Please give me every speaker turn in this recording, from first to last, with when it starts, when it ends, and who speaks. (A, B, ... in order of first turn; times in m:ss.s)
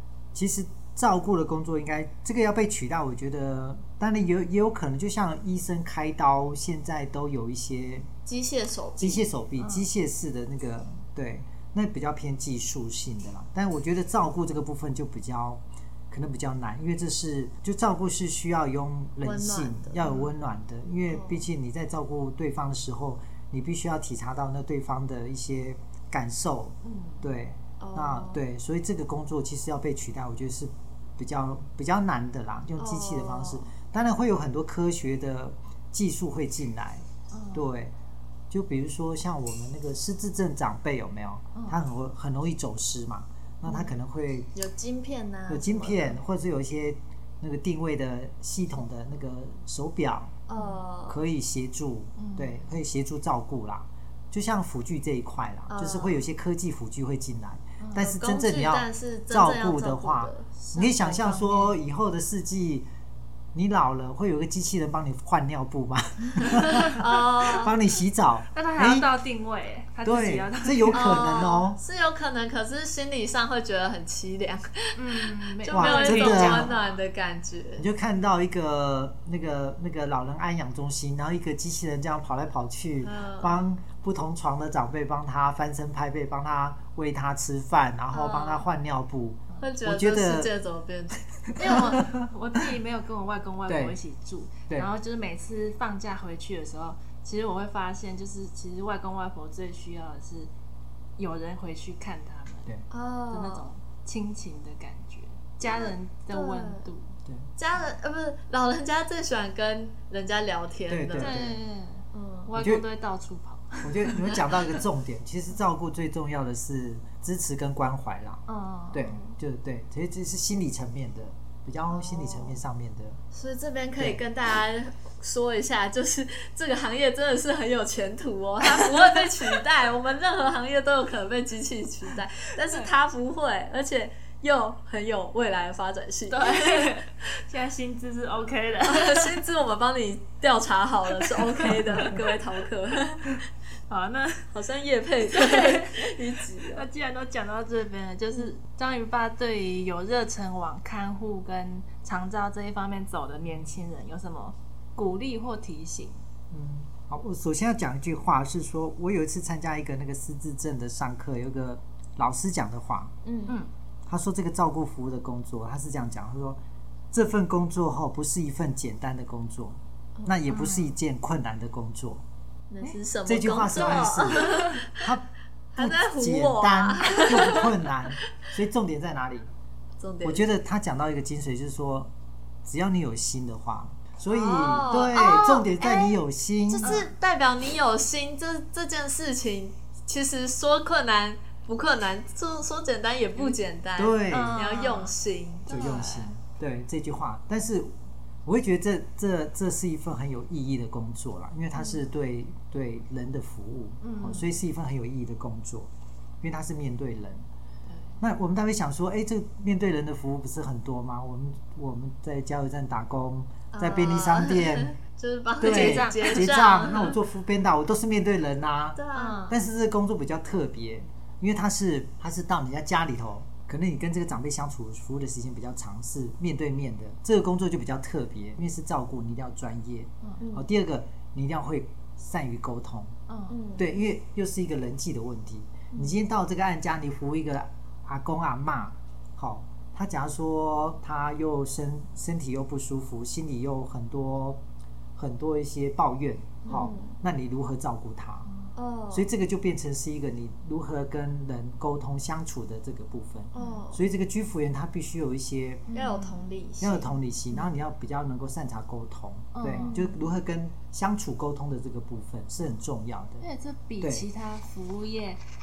0:00.3-0:08.1 A
0:08.3-0:09.3 B
0:09.0-0:37.9 A
0:09.6-0:09.9 C
0:19.2-0:20.0 B
0:20.0-0:20.3 C
0:21.1-0:21.5 B
0:26.8-0:27.3 C
0:27.8-0:28.4 B
0:32.8-0:33.7 B
0:37.3-0:37.7 C
0:38.5-0:44.5 A
0:44.6-0:46.2 B
0:45.5-0:50.4 A
0:50.5-0:51.2 B
0:50.5-0:50.8 C
0:51.1-1:02.9 A
0:52.2-0:52.7 C
0:55.7-0:56.2 B
0:57.8-0:58.1 C
0:58.0-1:00.5 B
1:00.6-1:01.8 C
1:03.5-1:09.1 A
1:06.5-1:07.7 B
1:08.5-1:11.4 C
1:10.0-1:11.8 A
1:10.9-1:17.9 B
1:15.0-1:17.0 C
1:15.7-1:16.7 A
1:17.8-1:30.5 A
1:23.0-1:23.6 B
1:28.1-1:28.7 B
1:29.6-1:32.0 B
1:31.6-1:32.3 A
1:31.6-1:40.5 C
1:33.7-1:34.0 A
1:41.2-1:42.7 C
1:42.9-1:43.6 B
1:43.3-1:47.1 C
1:45.7-1:46.9 B
1:47.6-1:51.4 B
1:50.9-1:51.6 A
1:51.2-1:54.8 C
1:52.1-1:52.5 B
1:52.6-1:52.8 A
1:53.8-2:03.2 A
1:58.5-1:59.1 C
1:59.1-1:59.4 B
2:01.9-2:02.6 B
2:03.3-2:17.0 B
2:04.0-2:04.2 A
2:08.7-2:09.5 C
2:16.3-2:19.4 C
2:18.8-2:23.4 B
2:21.4-2:22.1 C
2:23.9-2:24.5 C
2:24.5-2:26.8 B
2:25.3-2:36.2 C
2:36.5-2:43.2 A
2:43.2-2:43.6 B
2:44.1-2:46.6 A
2:47.1-2:52.2 A
2:50.5-2:50.9 C
2:52.7-2:55.0 B
2:53.3-2:59.5 A
2:53.8-2:54.8 C
2:55.7-2:57.9 B
3:00.0-3:00.5 B
3:00.2-3:02.1 A
3:02.6-3:07.0 A
3:04.3-3:16.0 B
3:06.8-3:07.1 C
3:14.0-3:14.6 A
3:14.3-3:15.1 C
3:15.7-3:17.9 A
3:15.7-3:16.4 C
3:18.4-3:25.9 A
3:24.0-3:24.5 C
3:26.4-3:27.4 A
3:28.2-3:34.9 A
3:33.7-3:37.2 B
3:35.6-3:53.2 A
3:35.6-3:36.6 C
3:39.0-3:39.4 B
3:39.1-3:39.6 C
3:50.4-3:50.7 B
3:53.3-3:53.6 C
3:53.5-3:53.9 B
3:53.8-4:04.6 A
4:05.2-4:08.5 A
4:06.7-4:07.2 B
4:08.8-4:09.3 B
4:09.1-4:15.8 A
4:13.5-4:14.0 B
4:13.6-4:13.8 C
4:15.9-4:16.4 C
4:15.9-4:17.1 B
4:16.8-4:23.5 A
4:19.6-4:20.0 C
4:19.8-4:20.2 B
4:23.4-4:25.4 C
4:24.0-4:24.3 A